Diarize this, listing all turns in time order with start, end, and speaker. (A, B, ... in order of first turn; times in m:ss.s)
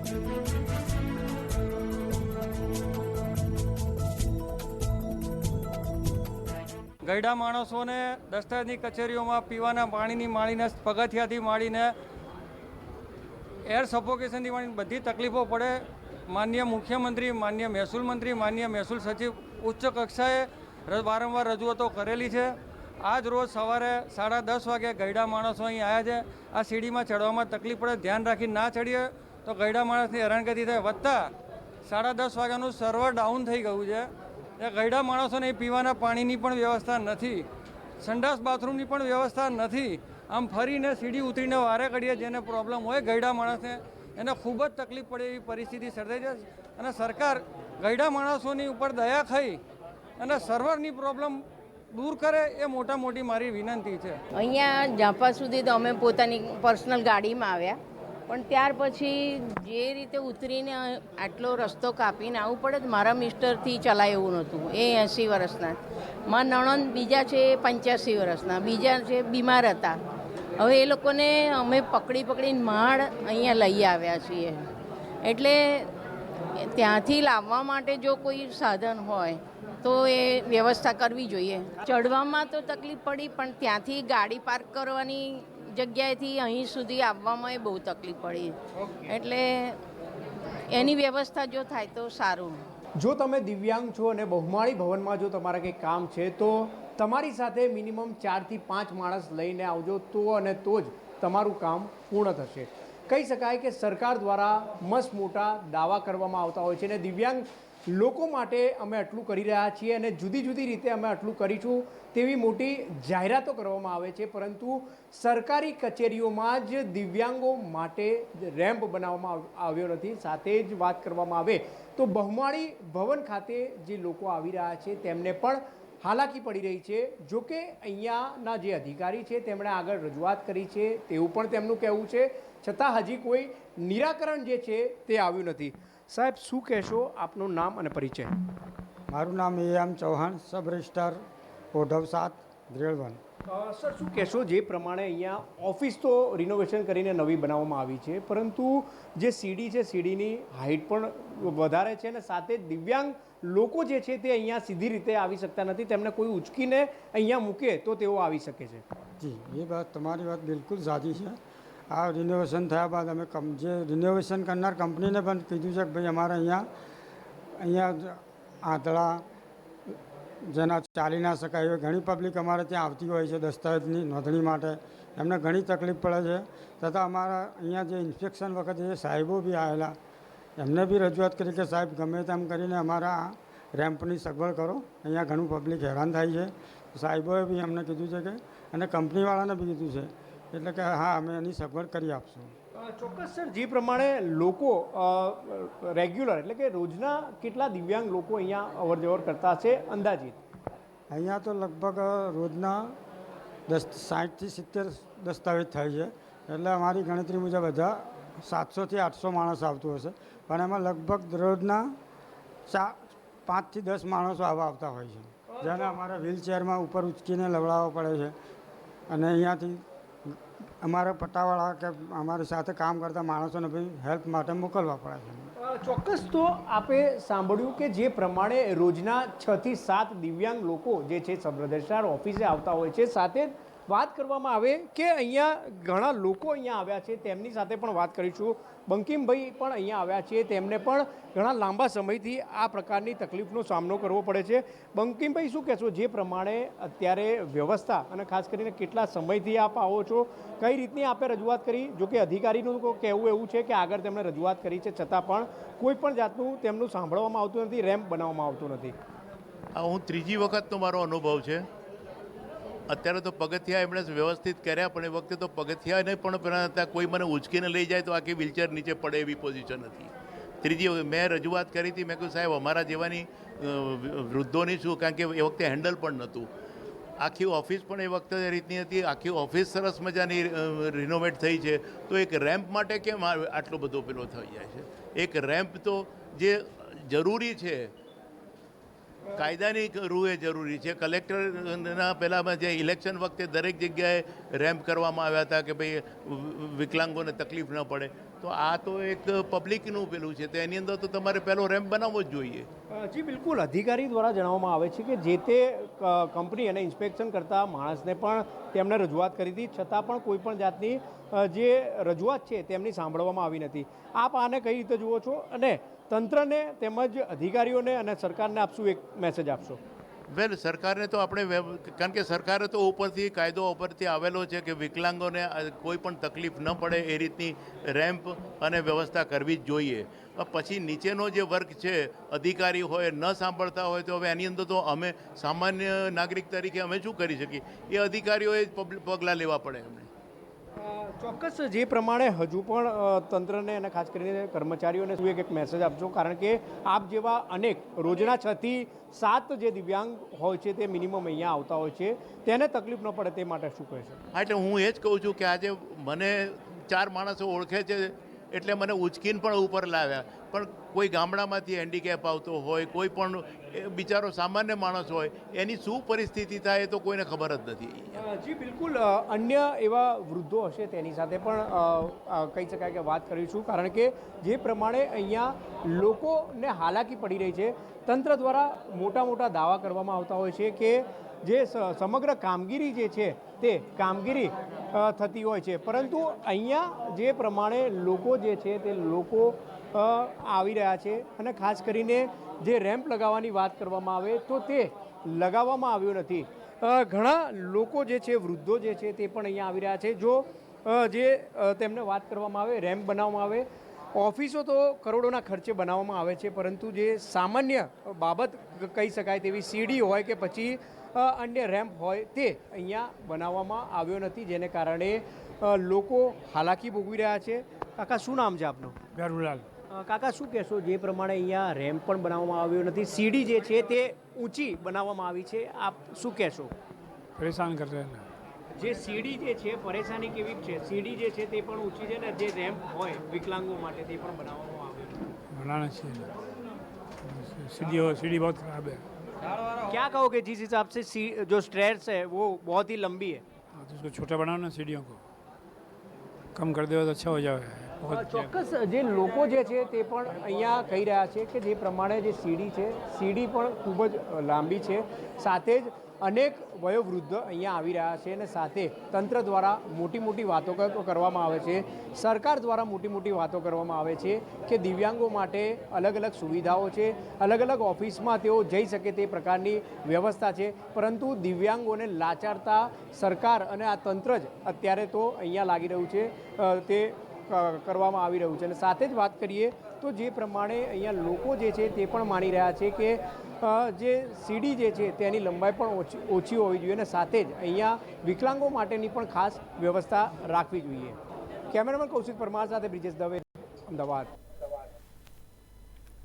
0:07.0-0:11.9 A
0:13.7-0:15.8 A
0:16.3-0:22.5 A
0:23.0-0:31.3 A
0:31.9-0:34.1 A
0:34.6-0:37.4 A
0:38.0-0:49.6 A
0:50.2-0:51.4 A
0:51.9-0:54.2 A
0:54.3-1:10.0 B
1:10.6-1:14.6 B
1:15.2-1:15.9 B
1:16.6-1:29.8 B
1:30.7-1:32.6 B
1:33.0-2:18.3 C
2:19.1-2:21.2 D
2:21.7-2:23.2 D
2:23.5-2:38.8 C
2:39.2-2:41.4 D
2:41.9-2:46.6 D
2:47.6-2:49.2 D
2:50.4-2:59.9 D
3:00.6-3:12.5 D
3:12.8-3:20.4 C
3:21.1-3:23.0 D
3:23.7-3:32.0 D
3:32.7-3:38.3 D
3:39.1-3:45.5 D
3:45.6-4:18.9 C
4:19.7-4:21.6 E
4:22.9-4:36.5 E
4:37.2-4:47.9 E
4:49.3-5:02.7 E
5:02.9-5:19.8 C
5:20.3-5:40.1 E
5:40.8-5:54.2 C
5:54.3-6:08.2 E
6:08.1-6:59.0 C
6:59.1-6:59.6 F
6:59.9-7:06.7 C
7:07.4-7:08.2 F
7:08.7-7:15.2 C
7:15.5-7:16.3 F
7:17.2-7:19.0 F
7:19.8-7:23.4 C
7:23.7-7:25.2 F
7:26.5-7:28.6 F
7:28.1-8:11.2 C
8:11.7-8:14.3 C